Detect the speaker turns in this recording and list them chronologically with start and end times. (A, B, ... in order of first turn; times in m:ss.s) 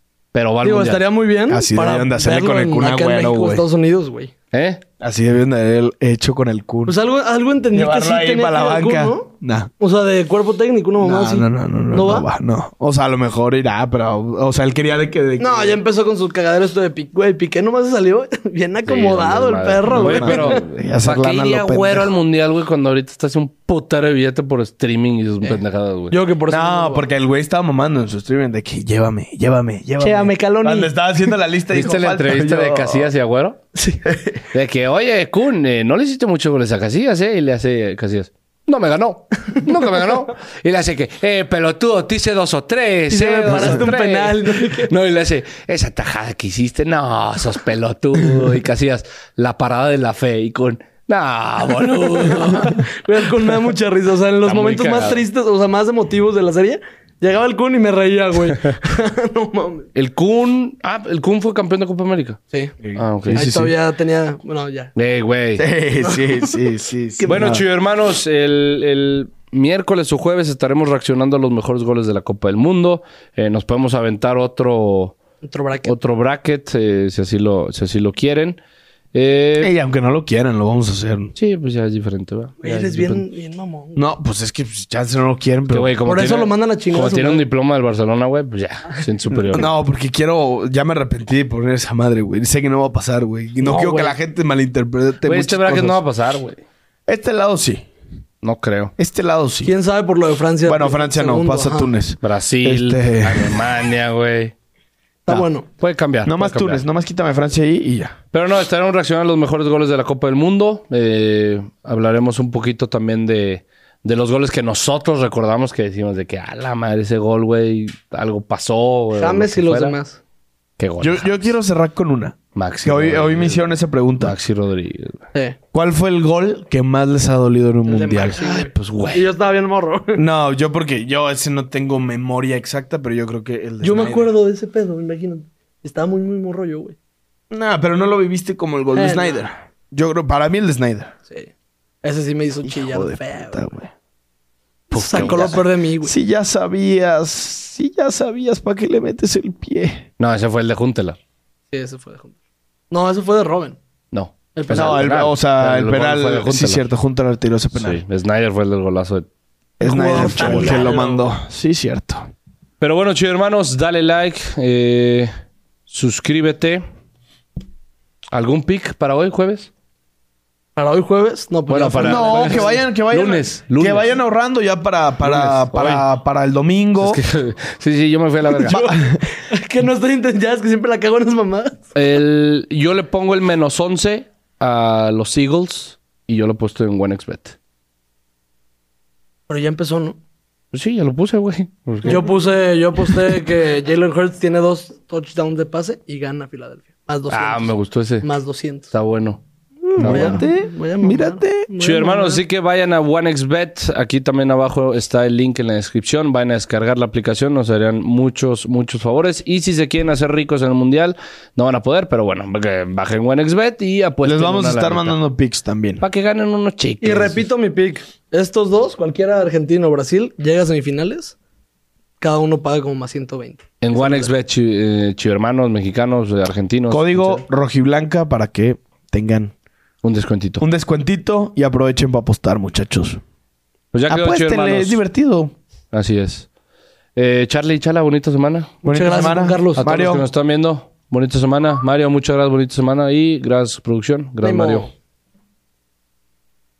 0:00.3-0:01.0 A
0:00.6-0:04.3 B
0:01.5-0:03.6 C
0:04.5-0:04.8 A
0:05.0-0:07.0 C
0:06.8-0:12.3 B
0:07.7-0:09.7 C
0:11.0-0:15.8 C
0:15.4-0:20.6 B
0:18.8-0:26.2 A
0:19.9-0:22.1 C
0:26.1-0:27.1 B
0:26.5-0:33.1 C
0:30.0-0:31.3 B
0:31.7-0:33.6 A
0:33.7-0:34.0 B
0:34.0-0:34.4 C
0:34.5-0:52.8 A
0:43.1-0:44.9 B
0:51.6-0:59.9 B
0:54.4-0:55.2 A
0:59.9-1:02.4 A
1:02.8-1:03.7 C
1:02.9-1:03.5 A
1:03.3-1:04.9 B
1:04.9-1:05.7 A
1:05.6-1:07.6 C
1:07.2-1:07.6 B
1:07.2-1:15.2 A
1:15.4-1:15.9 B
1:15.8-1:18.6 A
1:19.1-1:19.7 A
1:19.6-1:21.3 C
1:21.4-1:23.2 A
1:22.6-1:24.1 B
1:24.0-1:25.9 C
1:25.7-1:29.7 A
1:26.0-1:27.4 B
1:29.5-1:36.0 C
1:33.6-1:34.2 B
1:35.2-1:36.6 A
1:37.1-1:37.8 C
1:38.4-1:38.9 A
1:39.0-1:39.7 C
1:39.6-1:41.9 B
1:40.6-1:43.5 C
1:42.2-1:44.5 A
1:45.2-1:45.7 B
1:45.3-1:46.8 A
1:46.2-1:48.2 C
1:48.3-2:00.0 A
1:59.2-2:00.2 B
2:00.8-2:01.5 A
2:01.0-2:04.4 C
2:02.5-2:03.6 A
2:04.2-2:05.2 A
2:05.7-2:08.4 C
2:07.9-2:10.2 B
2:08.4-2:09.3 A
2:10.2-2:14.3 C
2:13.8-2:17.0 B
2:17.5-2:21.1 C
2:18.9-2:19.5 B
2:22.0-2:23.7 B
2:22.6-2:23.9 C
2:24.9-2:25.6 A
2:24.9-2:26.1 B
2:25.1-2:30.1 C
2:30.2-2:31.2 A
2:31.7-2:32.3 B
2:32.9-2:33.8 B
2:34.1-2:36.9 A
2:34.5-2:35.1 B
2:34.7-2:38.0 C
2:37.7-2:39.3 A
2:39.8-2:42.2 C
2:39.8-2:41.3 B
2:40.1-2:41.0 A
2:42.8-2:45.3 A
2:45.9-2:46.8 A
2:48.3-2:49.7 A
2:50.8-2:52.8 B
2:51.7-2:54.2 A
2:52.0-2:57.2 C
2:55.2-2:56.1 A
2:57.0-2:58.8 A
2:58.5-3:01.8 B
2:58.7-2:59.2 C
3:01.9-3:07.6 A
3:09.5-3:10.2 B
3:10.7-3:12.3 A
3:12.0-3:18.9 B
3:17.3-3:18.3 A
3:18.9-3:19.4 A
3:19.8-3:22.4 B
3:20.0-3:21.7 C
3:20.0-3:20.4 A
3:21.8-3:35.2 A
3:34.2-3:36.0 C
3:36.0-3:37.5 A
3:37.0-3:41.4 B
3:42.2-3:44.3 B
3:43.8-3:47.4 A
3:46.9-3:49.5 C
3:50.0-3:50.6 A
3:50.6-3:53.2 C
3:53.9-3:55.0 A
3:54.1-3:55.5 C
3:55.9-3:56.5 A
3:57.2-3:58.8 A
3:58.8-4:00.0 B
3:58.8-4:00.2 C
3:59.8-4:04.9 A
4:04.4-4:04.9 B